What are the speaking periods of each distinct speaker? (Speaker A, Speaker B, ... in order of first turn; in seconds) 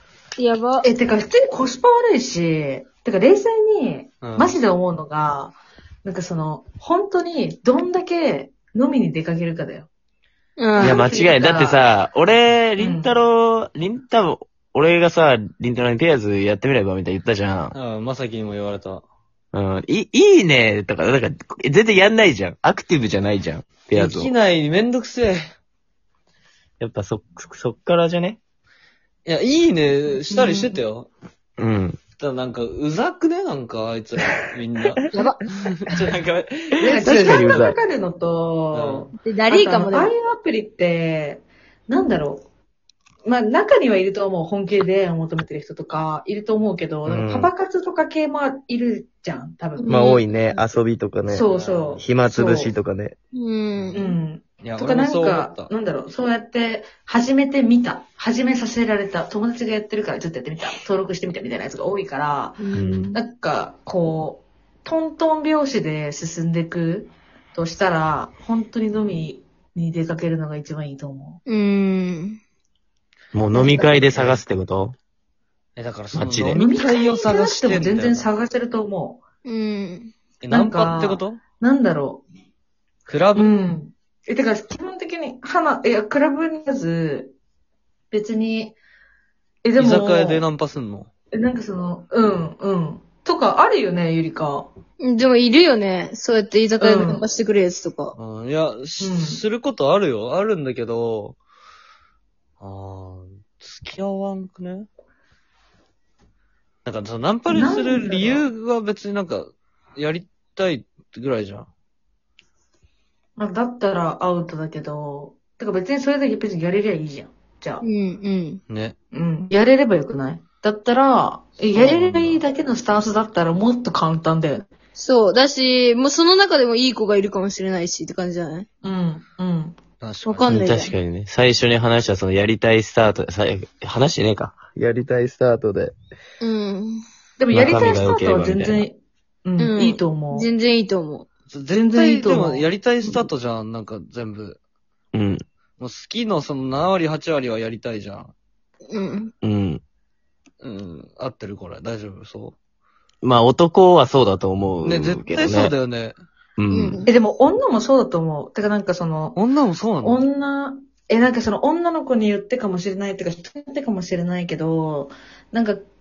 Speaker A: 0.4-0.9, 10.6-11.1, 35.1-35.4, 39.2-40.1, 49.8-50.2, 53.3-54.1, 62.6-63.2, 71.5-72.4, 79.5-80.1, 95.0-98.2, 117.8-118.6, 125.0-128.7, 130.3-130.9, 136.4-137.0, 139.6-141.3, 148.9-149.3, 156.7-157.1
Speaker B: 0.8-9.9, 10.8-11.8, 12.8-13.1, 30.3-30.8, 36.8-42.5, 43.2-49.9, 51.3-52.7, 54.0-71.4, 73.5-73.9, 76.5-79.2, 80.5-82.2, 83.4-87.3, 88.1-88.8, 89.6-90.5, 91.3-94.7, 96.8-97.3, 99.0-99.4, 107.5-108.5, 113.4-117.9, 119.1-124.7, 128.8-129.8, 137.4-140.5, 141.7-142.7, 157.1-159.4, 160.0-165.8
Speaker C: 4.2-4.6, 17.7-19.1, 23.9-25.4, 29.3-31.1, 32.2-37.6, 38.7-39.1, 51.4-52.0, 54.6-55.7, 74.1-74.4, 75.8-78.3, 80.4-81.4, 83.1-83.5, 89.8-91.1, 98.2-101.4, 102.6-104.9, 106.8-111.7, 118.7-119.0, 121.7-122.4, 130.0-130.6, 141.5-144.6, 145.8-148.3, 150.6-152.6, 154.8-156.2, 159.3-160.2
Speaker D: 10.8-17.7, 19.5-24.3, 26.8-28.4, 31.6-32.0, 37.0-37.8, 47.1-47.5, 49.9-51.5, 52.0-53.2, 62.7-63.1, 73.3-75.0, 76.1-76.6, 130.5-135.9, 137.5-138.9, 145.1-145.4, 149.4-149.8, 153.2-155.7, 156.6-157.1